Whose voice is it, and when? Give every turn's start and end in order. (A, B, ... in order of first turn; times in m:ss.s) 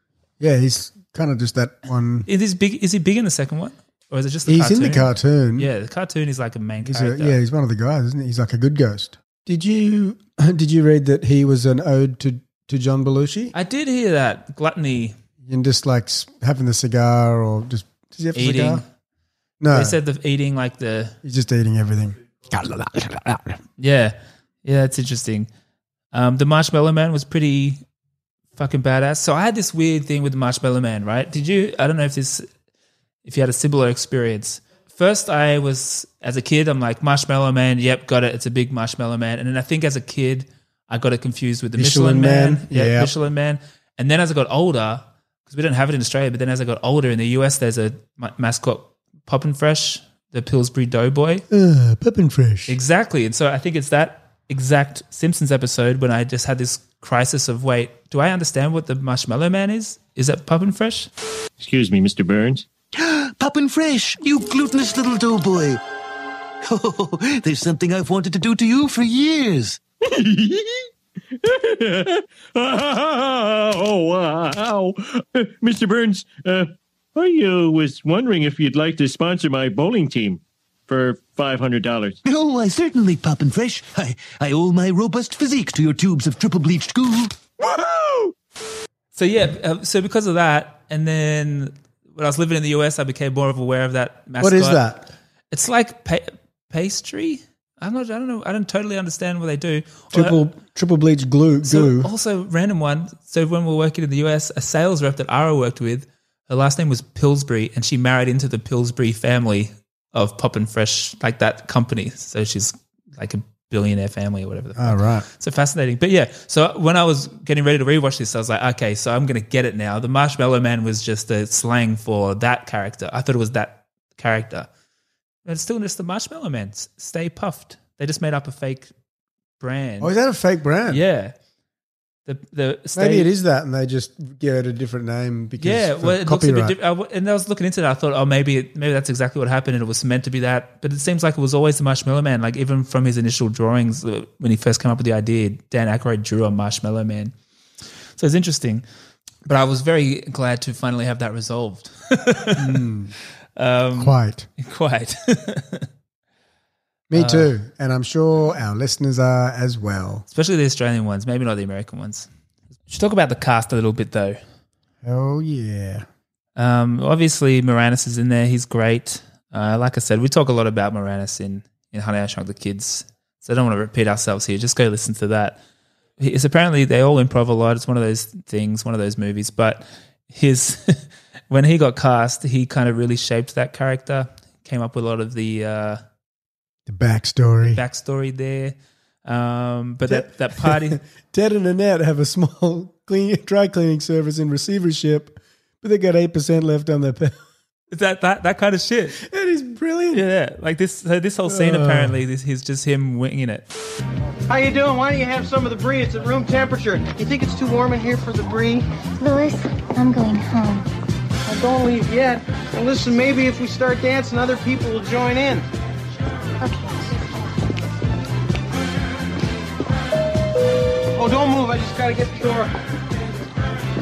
0:00.4-0:02.3 A
0:02.3-0:07.4 B
0:04.5-0:05.7 A
0:06.8-0:13.5 A
0:13.5-0:15.2 B
0:15.4-0:18.8 A
0:18.4-0:18.8 B
0:19.6-0:20.0 A
0:19.7-0:21.2 B
0:21.2-0:23.6 A
0:23.8-0:25.5 B
0:26.1-0:27.8 B
0:28.6-0:32.5 B
0:33.2-0:51.4 B
0:41.8-0:43.1 A
0:51.5-0:52.8 A
0:52.7-1:01.1 B
1:01.6-1:02.7 C
1:03.0-1:05.8 D
1:06.6-1:09.8 D
1:10.0-1:22.2 C
1:22.2-1:27.4 D
1:29.1-1:34.8 B
1:34.4-1:35.1 A
1:35.5-1:40.4 B
1:40.1-1:42.1 A
1:41.6-2:04.7 B
1:54.8-1:55.3 A
2:05.5-2:08.9 B
2:09.6-2:10.1 B
2:10.0-2:11.0 A
2:10.9-2:11.4 B
2:12.3-2:13.3 B
2:13.0-2:16.8 A
2:15.6-2:27.3 B
2:28.2-2:28.8 B
2:29.5-2:32.8 B
2:32.6-2:33.1 A
2:33.6-2:35.9 B
2:34.0-2:34.5 A
2:37.1-2:40.3 A
2:37.2-2:37.5 B
2:40.3-2:42.3 B
2:42.9-2:44.4 B
2:45.0-2:46.1 A
2:46.6-2:55.6 B
2:56.2-3:06.0 B
3:06.9-3:07.8 A
3:07.7-3:11.0 B
3:10.1-3:17.4 A
3:17.9-3:19.2 B
3:19.1-3:20.3 A
3:20.1-3:23.7 B
3:21.4-3:22.2 A
3:24.5-3:28.9 E
3:29.2-3:30.9 F
3:31.5-3:35.7 E
3:36.6-3:37.1 F
3:41.2-3:42.7 E